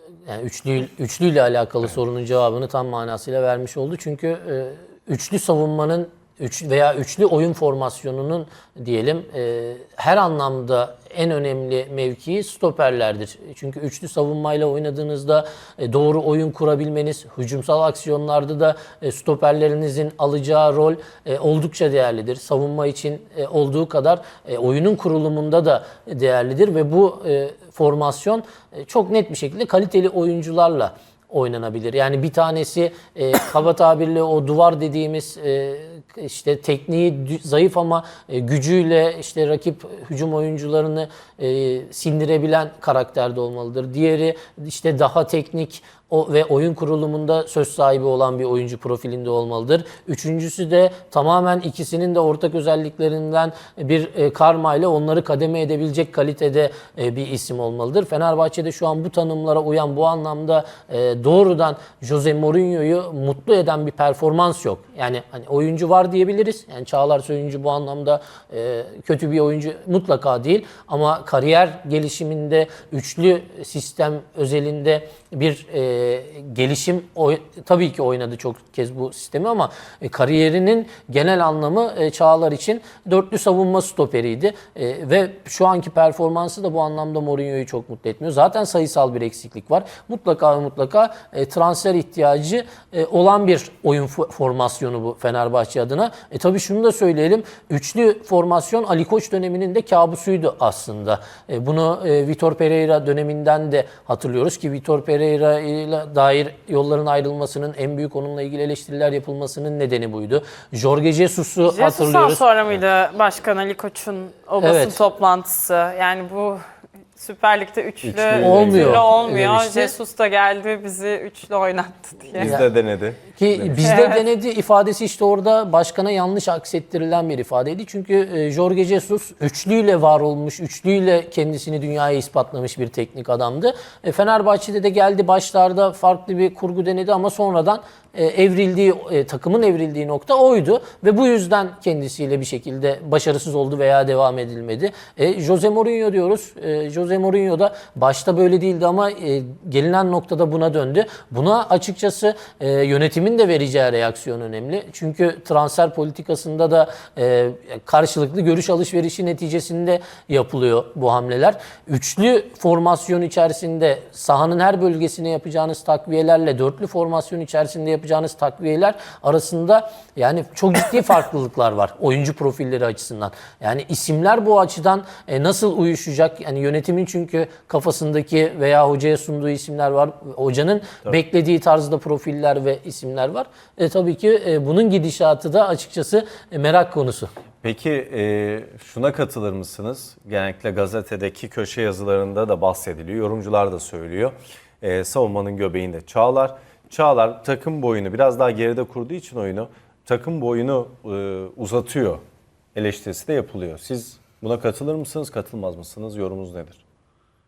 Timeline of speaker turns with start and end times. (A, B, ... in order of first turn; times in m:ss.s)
0:00.2-1:52.4 A
1:51.6-1:56.6 B
1:54.6-1:55.0 A
1:57.2-2:02.6 B
1:58.0-1:59.1 C
1:58.4-1:59.9 A
2:02.4-2:03.9 C
2:02.4-2:02.6 A
2:03.4-3:07.3 A
2:03.8-2:04.2 B
3:07.6-3:22.2 C
3:22.8-3:26.8 C